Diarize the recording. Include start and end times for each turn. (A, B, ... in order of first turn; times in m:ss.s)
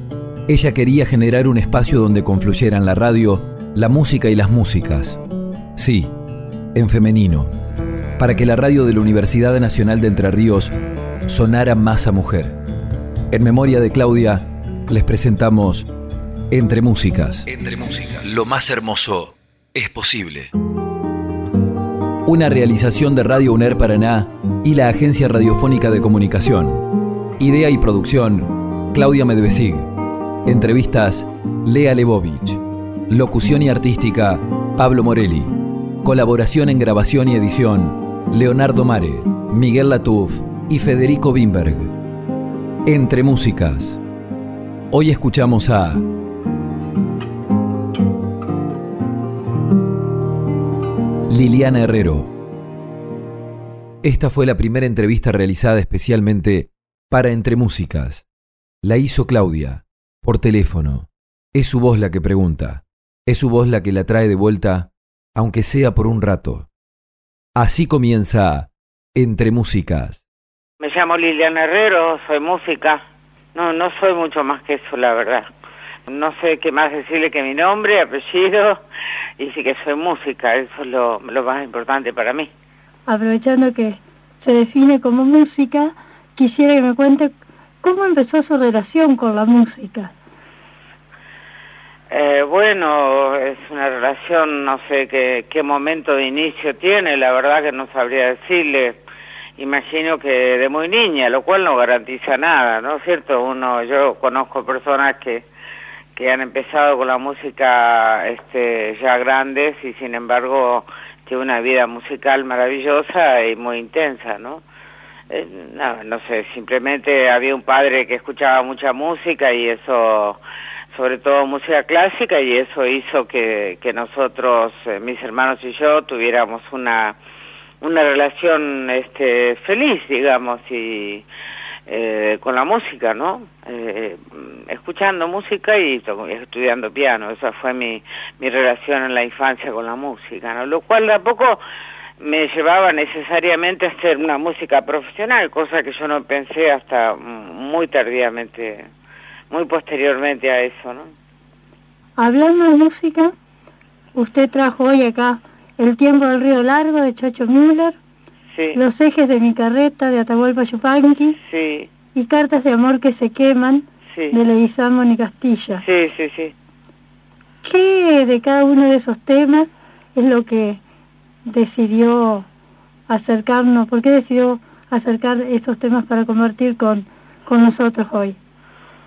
0:00.5-0:05.2 A
0:05.8-0:06.1 A
0:06.7-0:07.5 A
0:08.2-0:10.7 A
0:11.3-0:12.6 A
0:13.3-0:15.9 A
0:16.5-0:20.5 A
0:22.3-0:26.8 A
0:27.4-0:29.9 A
0:30.5-0:41.9 A
0:42.9-0:44.0 A
0:44.9-0:46.0 A
0:51.3-0:52.3 A
0:54.0-0:58.3 A
0:58.8-1:06.7 A
1:07.6-1:10.2 A
1:10.8-1:13.0 B
1:13.5-1:15.5 B
1:16.1-1:18.8 B
1:19.4-1:22.5 B
1:23.1-1:30.1 C
1:32.1-1:39.0 B
1:39.6-1:45.4 B
1:46.2-1:54.6 B
1:55.3-2:00.4 B
2:00.9-2:07.2 B
2:07.8-2:11.3 B
2:11.9-2:21.6 B
2:22.2-2:28.9 B
2:29.5-2:31.1 B
2:32.2-2:33.3 C
2:34.2-2:38.0 C
2:38.5-2:38.8 B
2:38.8-2:41.4 C
2:41.4-2:41.9 B
2:42.1-2:45.8 C
2:44.1-2:44.4 B
2:45.8-2:46.5 B
2:47.6-2:50.8 C
2:51.5-2:52.5 C
2:53.1-2:58.4 C